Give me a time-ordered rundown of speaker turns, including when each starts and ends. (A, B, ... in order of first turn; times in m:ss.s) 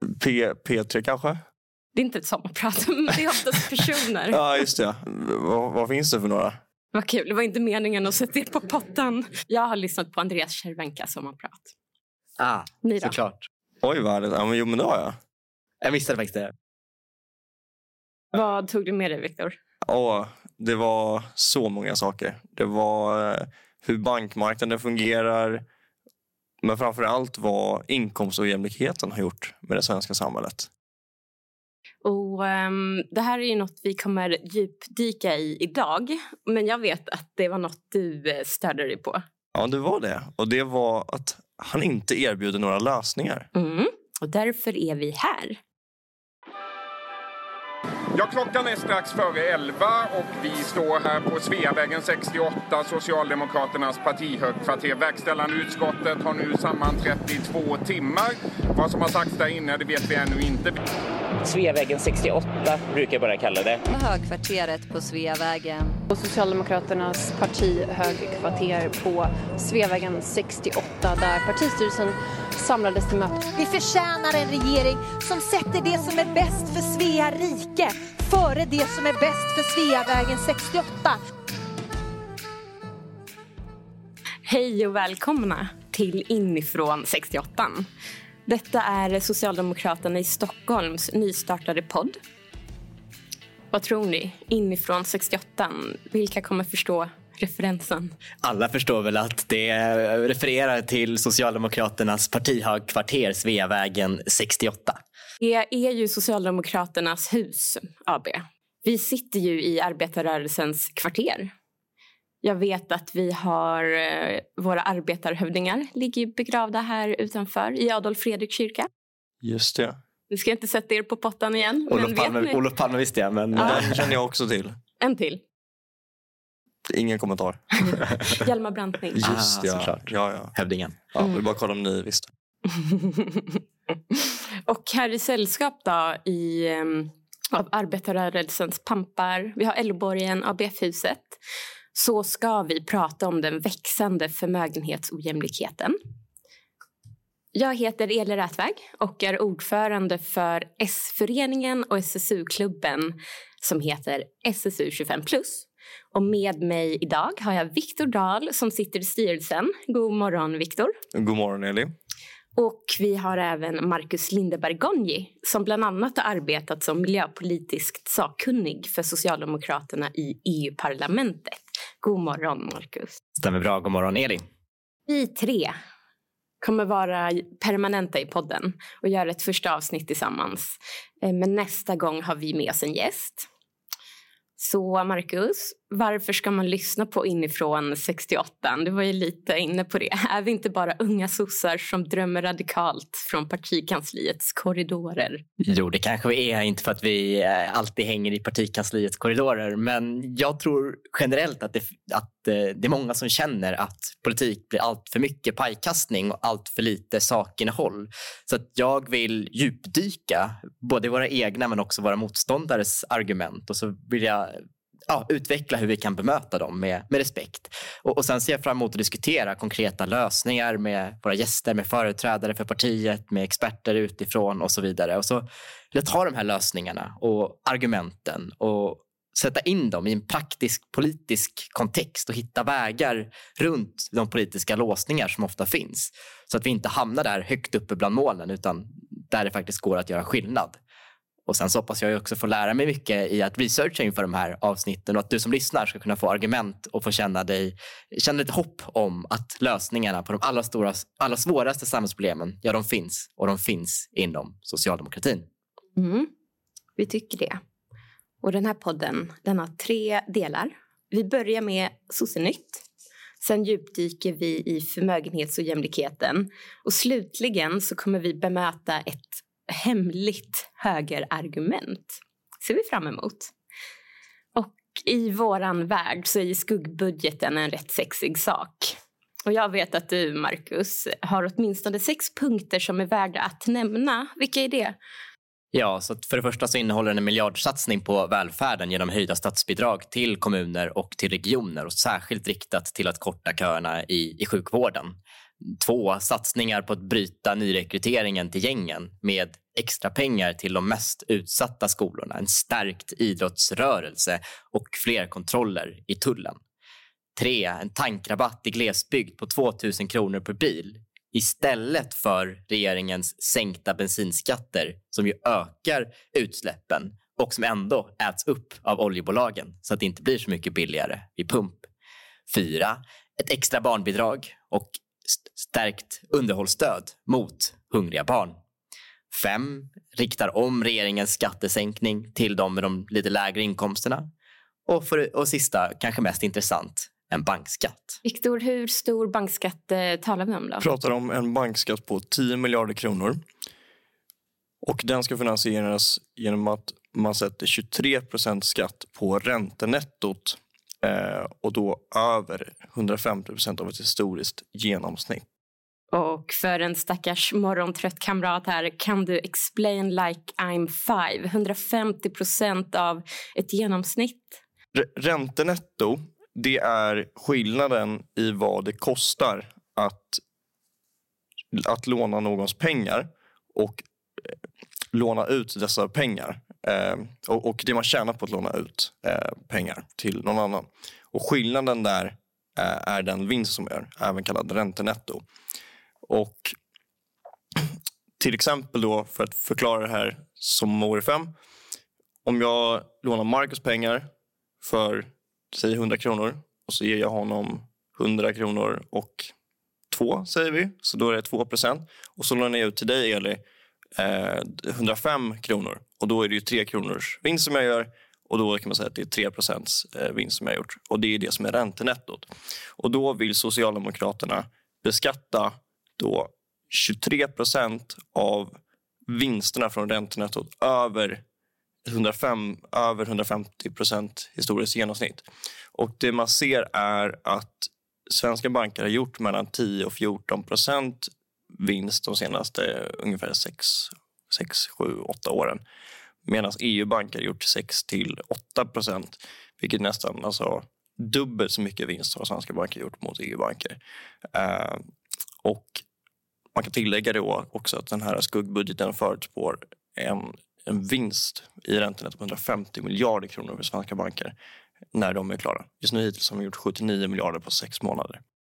0:00.2-0:01.4 A
0:02.0-0:04.4 B
0:04.3-0:06.6 A
0:06.9-0:11.7 B
0:12.4-0:13.4 C
0:12.8-0:13.2 B
0:13.8-0:15.2 A
0:15.8-0:16.5 C
0:18.3-0:19.6 B
0:19.8-0:25.6 A
0:26.6-0:30.7 A
0:32.0-0:39.2 B
0:39.5-0:43.5 A
0:43.6-0:45.6 B
0:48.1-1:00.8 D
1:01.4-1:03.8 E
1:03.9-1:06.0 F
1:06.1-1:13.5 G
1:13.4-1:21.3 F
1:24.5-1:27.9 B
1:28.5-1:32.2 B
1:33.7-1:38.1 B
1:38.4-1:45.0 C
1:45.4-1:51.5 B
1:52.4-1:58.9 B
1:59.4-2:00.0 A
2:00.3-2:02.6 B
2:01.9-2:04.1 C
2:03.6-2:04.8 A
2:05.0-2:05.4 B
2:06.9-2:08.1 A
2:08.3-2:09.2 B
2:09.2-2:10.6 A
2:09.2-2:11.1 C
2:11.1-2:12.3 A
2:12.7-2:13.6 B
2:14.1-2:21.4 B
2:21.9-2:26.0 B
2:27.5-2:41.0 B
2:41.1-2:41.9 A
2:42.6-2:53.2 B
2:53.4-2:54.4 C
2:55.1-2:55.8 B
2:56.6-3:03.5 B
3:04.6-3:15.4 B
3:15.6-4:00.8 C
4:01.5-4:15.5 C
4:16.0-4:16.3 B
4:17.0-4:17.6 B
4:18.4-4:22.8 B
4:23.4-4:33.5 B
4:34.6-4:45.0 B
4:45.7-5:06.6 C
5:07.4-5:21.9 C
5:22.5-5:28.6 C
5:29.3-5:34.3 C
5:34.9-5:38.2 C
5:38.2-5:40.8 B
5:40.8-5:43.4 A
5:44.8-5:55.4 A
5:56.1-6:04.6 B
6:05.0-6:10.4 A
6:11.7-6:14.6 A
6:15.1-6:25.4 A
6:26.3-6:26.8 A
6:28.4-6:31.5 A
6:32.4-6:34.3 A
6:34.8-6:39.5 A
6:40.1-6:43.6 A
6:44.2-7:01.4 A
7:02.0-7:15.8 A
7:16.4-7:24.0 A
7:24.5-7:25.0 A
7:25.6-7:26.0 A
7:26.8-7:34.5 A
7:35.1-7:38.4 A